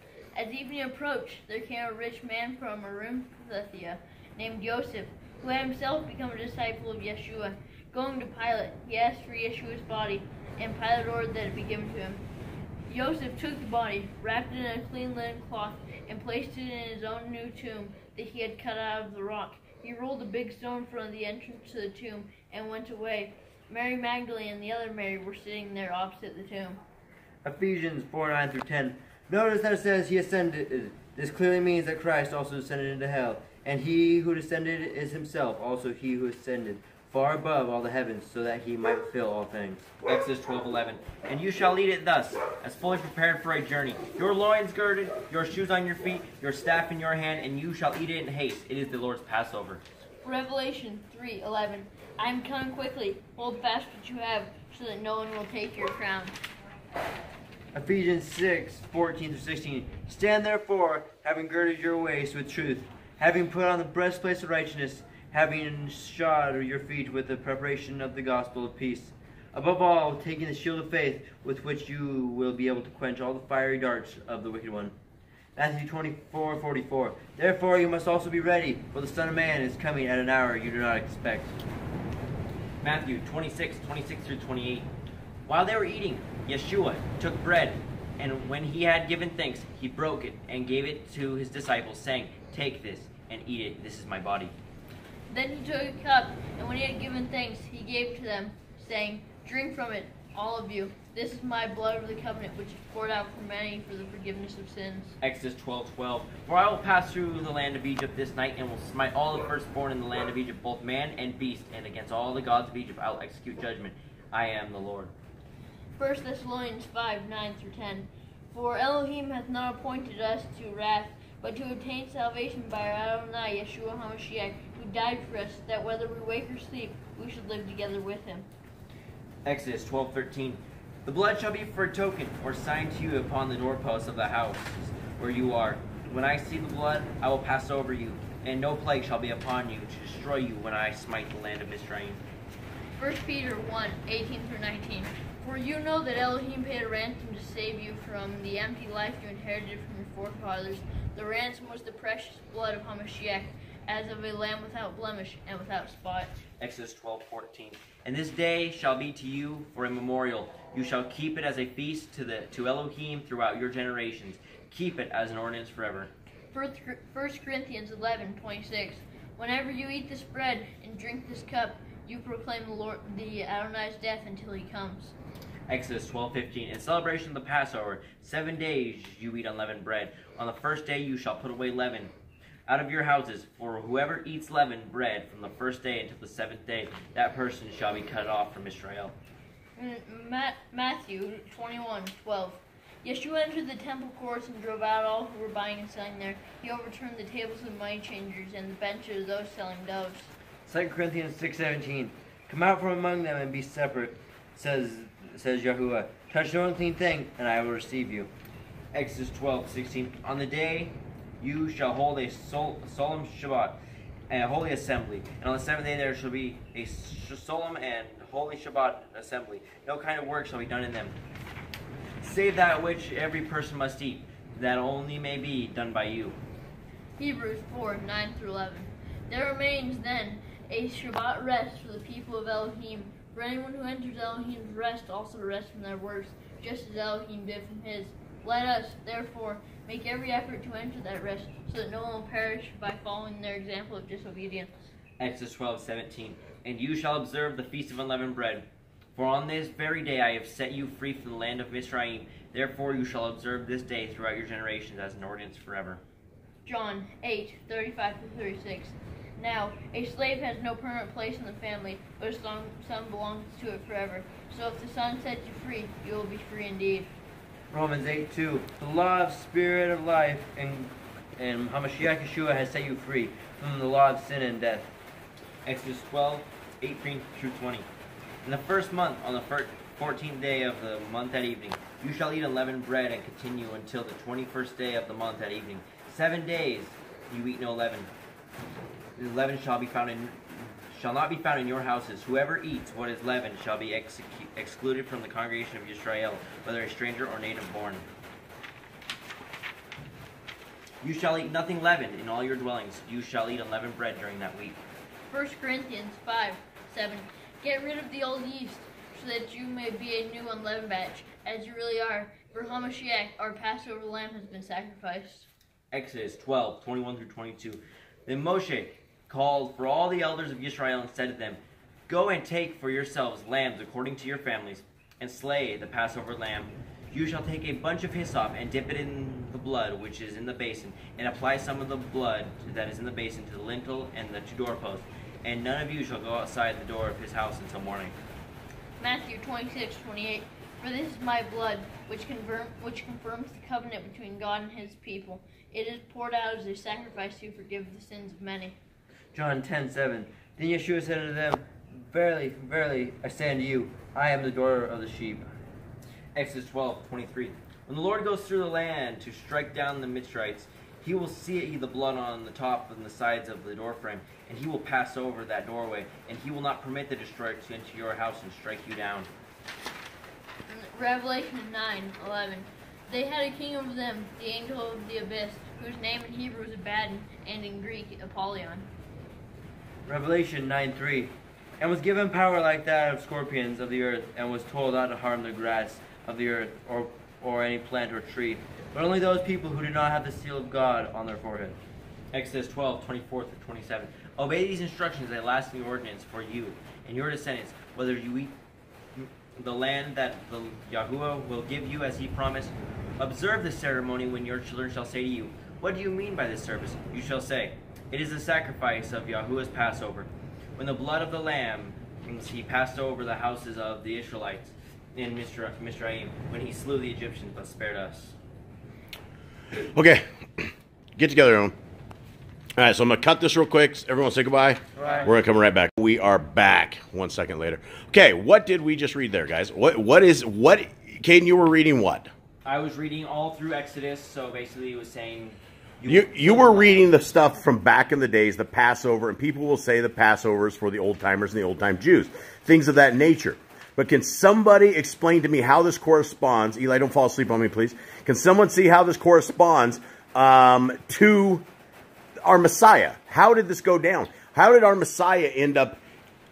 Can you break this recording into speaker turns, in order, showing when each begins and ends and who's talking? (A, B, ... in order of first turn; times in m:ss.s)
0:00.3-0:12.3 A
0:12.9-0:26.8 A
0:27.4-0:39.9 B
0:40.0-0:49.8 C
0:50.2-0:56.4 A
0:57.7-1:14.9 B
1:15.6-1:21.6 B
1:22.8-1:24.9 C
1:25.5-1:34.5 C
1:35.3-1:45.2 A
1:45.2-1:55.1 C
1:56.0-2:08.5 A
2:09.5-2:22.2 C
2:23.0-2:36.3 A
2:36.6-2:46.1 C
2:46.5-2:55.2 A
2:55.7-3:02.1 C
3:02.7-3:09.2 C
3:09.8-3:20.3 A
3:20.7-3:28.3 B
3:28.9-3:41.2 C
3:42.2-3:46.4 C
3:47.2-4:04.7 A
4:05.2-4:16.0 C
4:16.6-4:27.1 A
4:27.7-4:34.9 B
4:35.6-4:37.9 C
4:38.4-4:48.1 C
4:49.2-4:58.1 C
5:01.0-5:04.8 C
5:05.3-5:15.5 A
5:15.9-5:38.2 C
5:39.0-5:48.8 A
5:49.3-5:55.5 B
5:56.4-6:09.3 C
6:10.7-6:18.9 A
6:20.0-6:31.8 B
6:32.3-6:38.6 C
6:39.2-6:58.4 C
6:59.8-7:01.8 D
7:02.8-7:12.3 D
7:05.0-7:05.3 B
7:05.0-7:05.4 C
7:12.6-7:17.1 C
7:16.1-7:31.6 D
7:32.4-7:36.0 D